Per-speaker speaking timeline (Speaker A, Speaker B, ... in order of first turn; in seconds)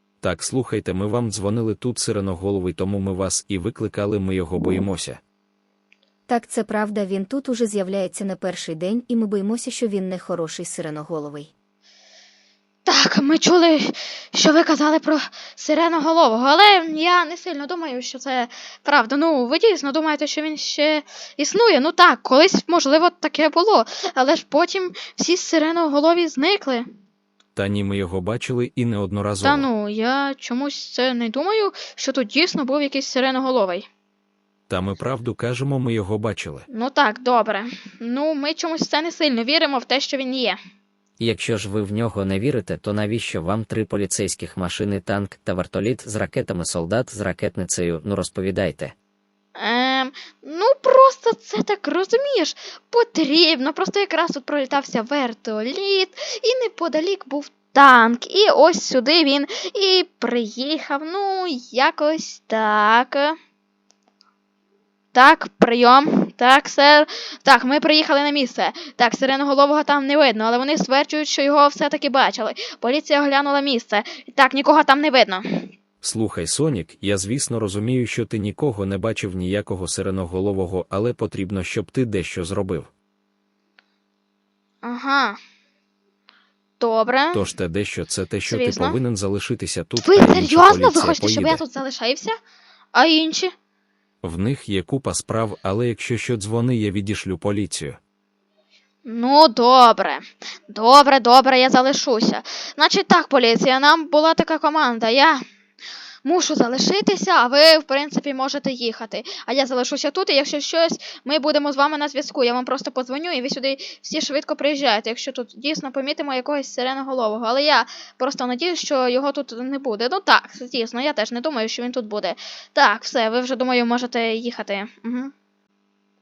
Speaker A: 0.2-5.2, 27.5-29.7, 34.7-36.6, 76.0-82.9, 87.3-91.6, 94.2-98.0
Speaker B: 6.3-11.5
Speaker C: 12.8-26.9, 29.4-33.9, 36.7-40.6, 49.5-63.4, 65.1-75.4, 84.8-85.4, 86.8-87.4, 88.4-89.0, 90.0-92.3, 92.9-93.5, 99.0-105.4, 106.2-125.3
Speaker D: 41.2-48.9